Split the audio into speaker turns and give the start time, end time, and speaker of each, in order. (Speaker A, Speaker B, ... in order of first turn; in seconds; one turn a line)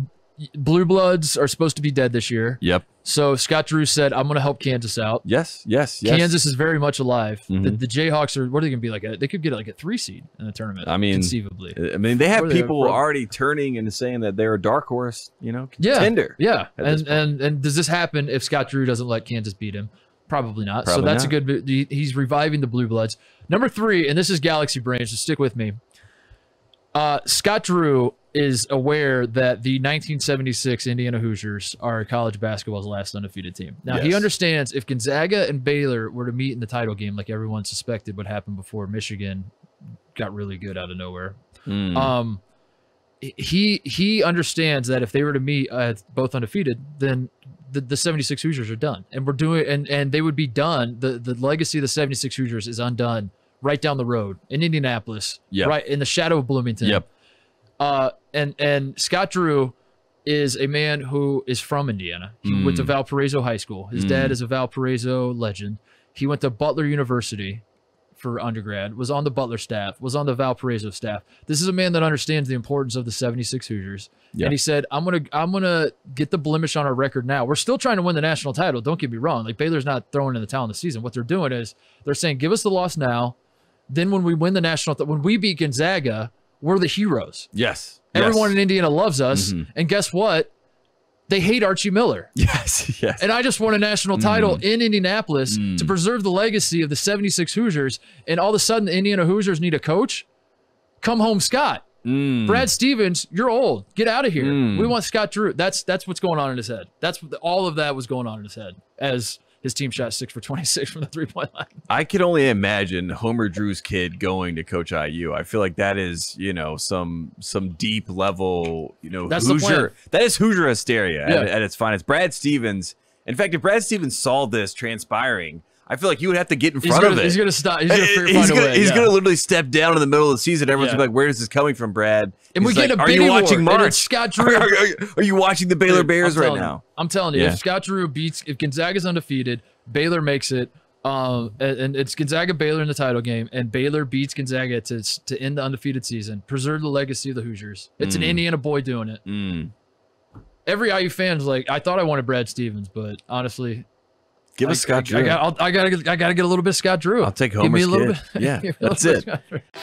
Speaker A: 0.4-5.2
Speaker B: 2.6-2.9
Speaker B: 5.2-6.4
Speaker A: 6.0-11.8
Speaker B: 7.5-7.8
Speaker B: 10.8-17.2
Speaker A: 12.3-13.0
Speaker A: 15.8-25.8
Speaker B: 20.9-21.4
Speaker A: 26.9-39.5
Speaker B: 33.9-34.3
Speaker A: 40.1-41.4
Speaker B: 41.7-42.1
Speaker A: 41.9-42.4
Speaker A: 43.2-57.0
Speaker A: 57.8-59.8
Speaker A: 60.3-67.6
Speaker B: 62.5-62.9
Speaker B: 63.9-64.4
Speaker A: 68.2-83.4
Speaker A: 83.9-87.5
Speaker B: 87.5-88.6
Speaker A: 88.1-90.5
Speaker B: 89.3-89.7
Speaker A: 91.3-92.3
Speaker B: 92.4-93.2
Speaker A: 93.2-100.3
Speaker B: 94.2-94.6
Speaker B: 95.5-95.9
Speaker A: 101.0-101.9
Speaker B: 102.0-102.7
Speaker A: 102.5-111.8
Speaker B: 104.4-105.0
Speaker B: 111.9-136.8
Speaker A: 119.3-119.9
Speaker A: 126.8-129.1
Speaker A: 130.8-131.0
Speaker A: 132.5-134.7
Speaker A: 135.9-149.2
Speaker B: 137.3-137.6
Speaker B: 148.0-148.4
Speaker B: 149.2-149.7
Speaker A: 150.7-153.9
Speaker B: 154.6-155.4
Speaker A: 154.7-159.6
Speaker B: 157.2-159.3